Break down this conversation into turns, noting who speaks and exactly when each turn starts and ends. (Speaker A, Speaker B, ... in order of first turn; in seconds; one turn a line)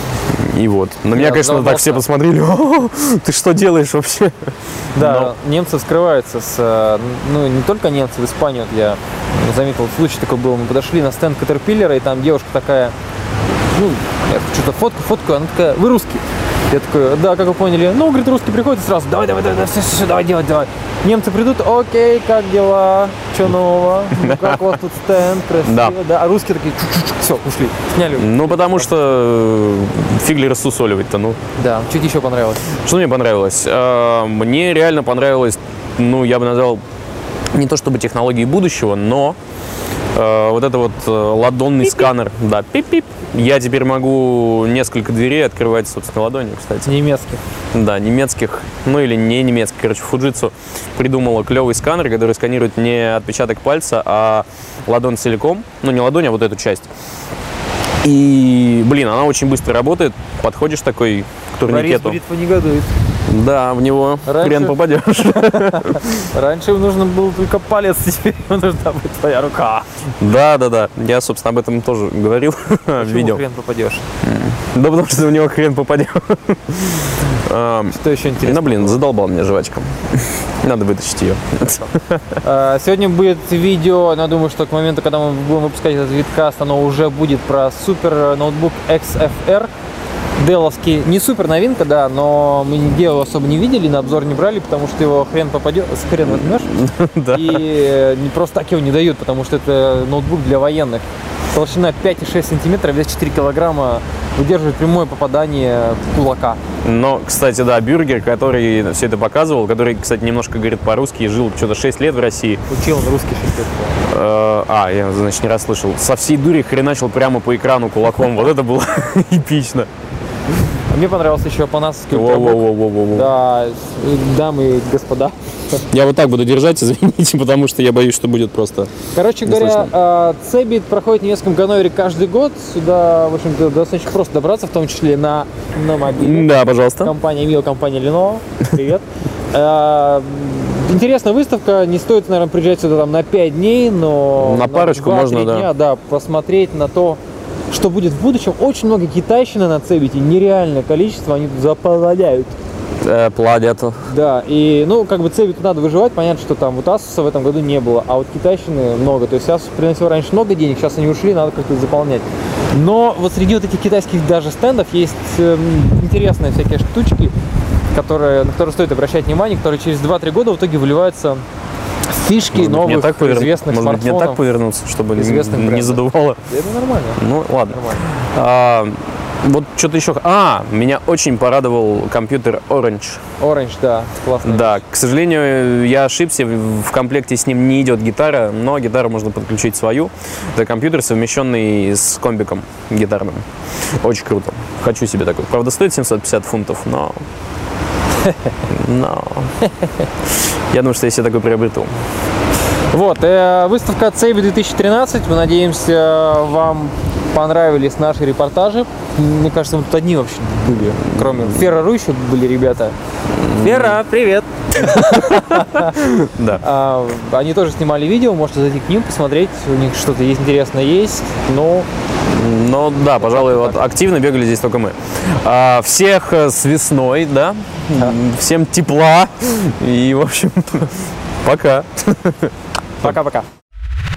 Speaker A: 0.3-4.3
Speaker B: 1.1-2.0
Speaker B: 5.0-12.9
Speaker A: 5.0-5.3
Speaker B: 13.7-28.9
Speaker A: 24.1-24.8
Speaker A: 25.6-25.9
Speaker A: 28.2-31.4
Speaker B: 31.6-32.7
Speaker A: 32.8-36.8
Speaker A: 37.5-39.4
Speaker A: 40.1-46.9
Speaker B: 46.9-47.4
Speaker A: 47.7-56.9
Speaker A: 58.0-62.2
Speaker B: 61.7-62.9
Speaker A: 63.3-66.2
Speaker B: 64.3-69.9
Speaker A: 70.2-73.4
Speaker B: 73.0-74.0
Speaker A: 74.2-82.2
Speaker B: 77.9-79.0
Speaker B: 82.4-89.7
Speaker B: 90.4-106.6
Speaker A: 96.3-97.7
Speaker A: 106.8-112.6
Speaker B: 112.7-114.0
Speaker A: 114.1-119.9
Speaker B: 120.9-125.8
Speaker A: 122.1-123.3
Speaker A: 125.9-128.9
Speaker B: 129.1-152.6
Speaker A: 129.4-129.9
Speaker A: 136.2-137.1
Speaker A: 144.4-145.7
Speaker A: 153.0-154.0
Speaker B: 154.1-167.3
Speaker B: 167.9-171.4
Speaker B: 172.1-174.4
Speaker A: 172.5-176.4
Speaker B: 175.1-178.1
Speaker A: 177.2-183.2
Speaker B: 183.4-184.8
Speaker A: 184.4-193.4
Speaker A: 194.0-197.2
Speaker B: 198.2-198.5
Speaker A: 198.7-199.5
Speaker A: 200.7-201.9
Speaker B: 202.9-212.9
Speaker A: 211.1-211.5
Speaker A: 213.4-214.0
Speaker B: 213.6-221.9
Speaker A: 215.3-216.6
Speaker A: 222.3-230.9
Speaker B: 223.2-223.9
Speaker A: 231.4-232.5
Speaker B: 233.0-233.5